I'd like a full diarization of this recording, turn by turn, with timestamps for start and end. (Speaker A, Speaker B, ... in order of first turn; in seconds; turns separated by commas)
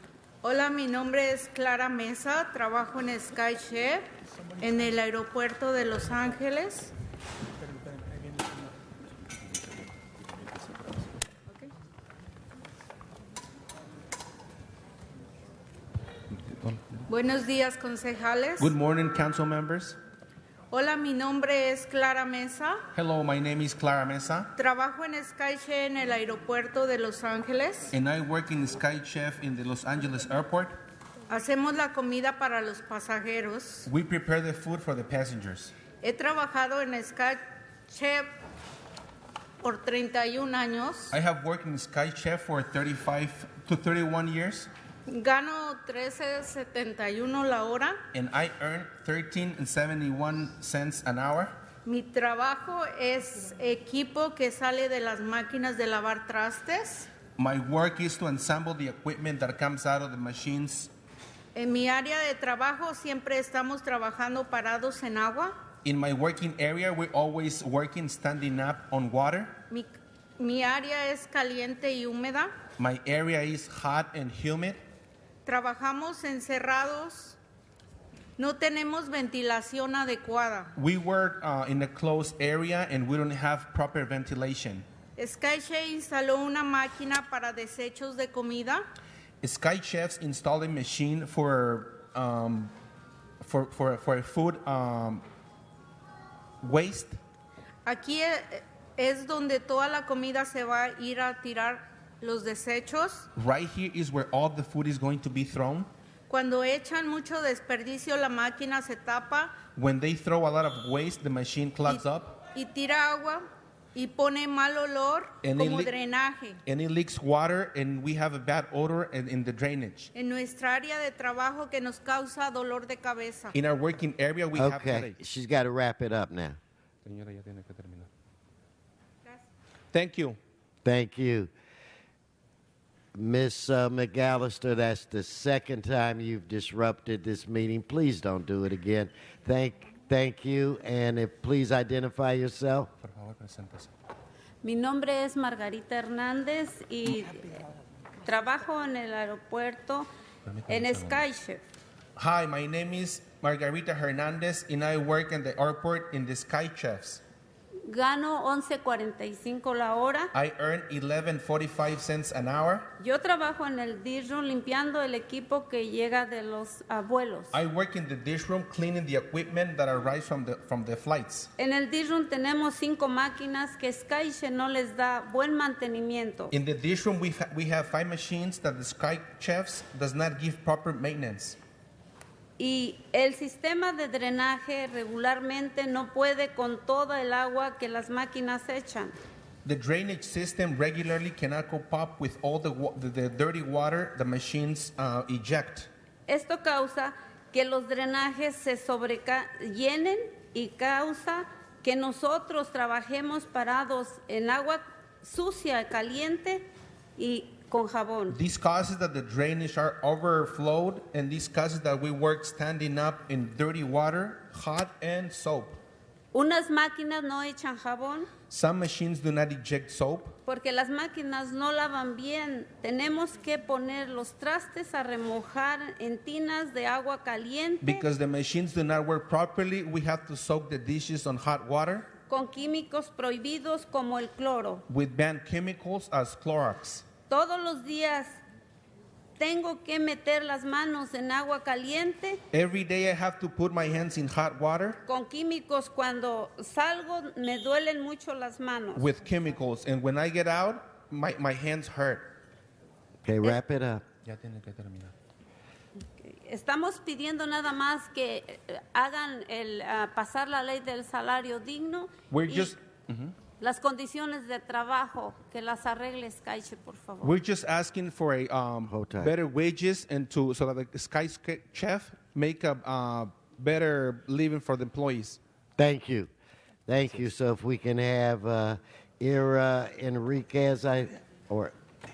Speaker A: 0.4-4.0, Speaker A: 4.6-6.9, Speaker A: 17.1-18.7, Speaker B: 18.6-20.0, Speaker A: 20.7-22.8, Speaker B: 22.9-24.5, Speaker A: 24.6-27.9, Speaker B: 27.9-30.8, Speaker A: 31.3-33.9, Speaker B: 33.9-35.7, Speaker A: 36.0-38.3, Speaker A: 39.6-41.1, Speaker B: 41.1-44.7, Speaker A: 45.1-48.0, Speaker B: 48.1-51.5, Speaker A: 51.8-57.1, Speaker B: 57.4-60.9, Speaker A: 61.5-65.5, Speaker B: 65.8-69.6, Speaker A: 69.7-72.5, Speaker B: 72.8-74.8, Speaker A: 75.5-77.4, Speaker A: 78.4-80.7, Speaker B: 80.8-84.8, Speaker A: 85.2-88.8, Speaker B: 89.4-92.7, Speaker B: 93.4-95.2, Speaker B: 96.6-97.2, Speaker A: 97.8-103.3, Speaker B: 103.4-105.9, Speaker A: 106.3-109.6, Speaker B: 109.7-112.4, Speaker A: 112.5-113.4, Speaker A: 114.0-116.6, Speaker B: 115.4-115.9, Speaker B: 116.7-120.1, Speaker A: 120.2-123.5, Speaker B: 123.5-125.2, Speaker C: 124.5-126.6, Speaker B: 127.0-128.1, Speaker B: 129.9-130.4, Speaker C: 130.8-131.5, Speaker C: 133.2-142.9, Speaker B: 143.0-143.9, Speaker D: 144.6-147.4, Speaker D: 148.2-150.1, Speaker B: 150.4-151.2, Speaker D: 150.7-151.6, Speaker B: 152.2-157.2, Speaker D: 157.9-160.3, Speaker B: 160.3-162.9, Speaker D: 163.0-167.6, Speaker B: 167.5-171.5, Speaker D: 171.6-176.5, Speaker B: 176.5-181.6, Speaker D: 182.6-189.2, Speaker B: 189.6-195.9, Speaker D: 196.3-206.7, Speaker D: 207.2-208.4, Speaker B: 208.3-215.8, Speaker D: 216.3-218.3, Speaker B: 218.5-220.4, Speaker D: 220.5-228.1, Speaker B: 227.8-232.1, Speaker D: 232.3-234.8, Speaker B: 234.9-237.1, Speaker D: 237.3-238.4, Speaker D: 239.4-242.4, Speaker B: 242.5-245.0, Speaker D: 245.1-249.1, Speaker B: 248.9-252.3, Speaker C: 253.2-254.0, Speaker B: 254.2-255.1, Speaker D: 256.2-262.8, Speaker B: 262.3-263.3, Speaker D: 263.6-267.4, Speaker B: 267.2-275.4, Speaker C: 268.9-269.3, Speaker C: 275.8-276.3, Speaker C: 276.9-281.7